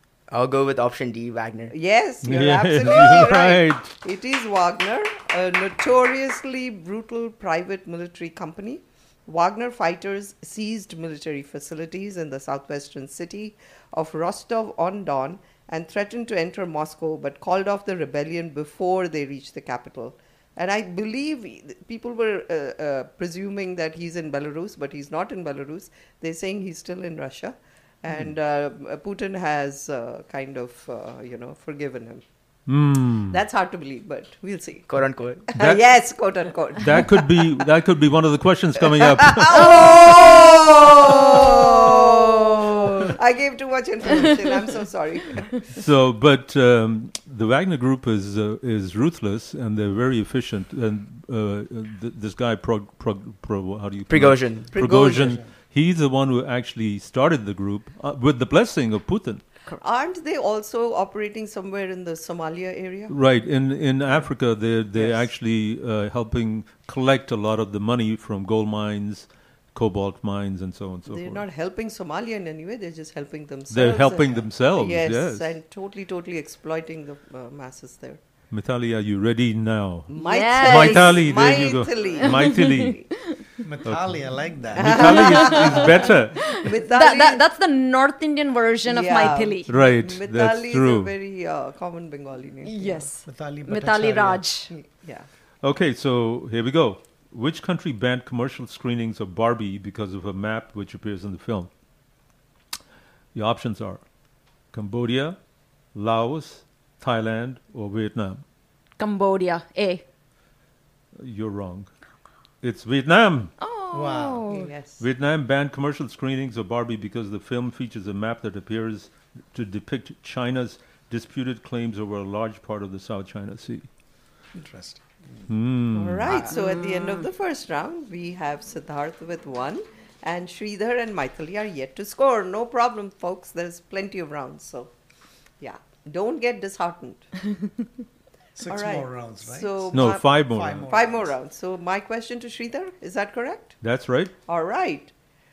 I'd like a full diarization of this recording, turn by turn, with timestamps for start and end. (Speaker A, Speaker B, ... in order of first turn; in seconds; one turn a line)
Speaker A: 0.3-1.7
Speaker B: 1.7-32.2
Speaker C: 2.2-3.9
Speaker C: 32.7-33.4
Speaker B: 33.3-37.5
Speaker A: 34.9-35.5
Speaker C: 35.5-35.8
Speaker C: 36.8-40.1
Speaker B: 39.2-45.5
Speaker D: 39.6-40.1
Speaker C: 45.7-59.4
Speaker A: 54.1-54.8
Speaker B: 54.7-55.4
Speaker B: 59.8-63.1
Speaker C: 63.1-71.4
Speaker B: 71.1-78.2
Speaker C: 73.7-75.5
Speaker C: 78.5-83.0
Speaker B: 80.1-83.0
Speaker D: 80.1-81.3
Speaker D: 82.4-82.7
Speaker E: 83.6-85.2
Speaker C: 83.8-84.2
Speaker C: 84.7-86.6
Speaker B: 84.8-85.9
Speaker D: 85.3-85.8
Speaker D: 86.4-89.7
Speaker B: 86.6-87.4
Speaker B: 88.8-93.1
Speaker C: 89.7-91.1
Speaker D: 92.6-94.7
Speaker E: 93.2-94.4
Speaker B: 94.7-95.3
Speaker C: 95.6-101.7
Speaker C: 103.3-104.0
Speaker C: 104.7-105.4
Speaker C: 105.9-108.4
Speaker D: 109.0-110.0
Speaker C: 111.2-111.9
Speaker C: 112.6-113.5
Speaker D: 113.6-114.7
Speaker E: 113.9-114.5
Speaker B: 114.5-115.0
Speaker C: 115.0-123.9
Speaker E: 124.5-125.2
Speaker C: 125.5-126.4
Speaker B: 125.9-134.9
Speaker D: 126.5-127.2
Speaker B: 135.6-137.3
Speaker E: 138.6-141.3
Speaker B: 138.7-143.8
Speaker C: 139.9-140.9
Speaker C: 143.8-144.3
Speaker B: 144.5-145.1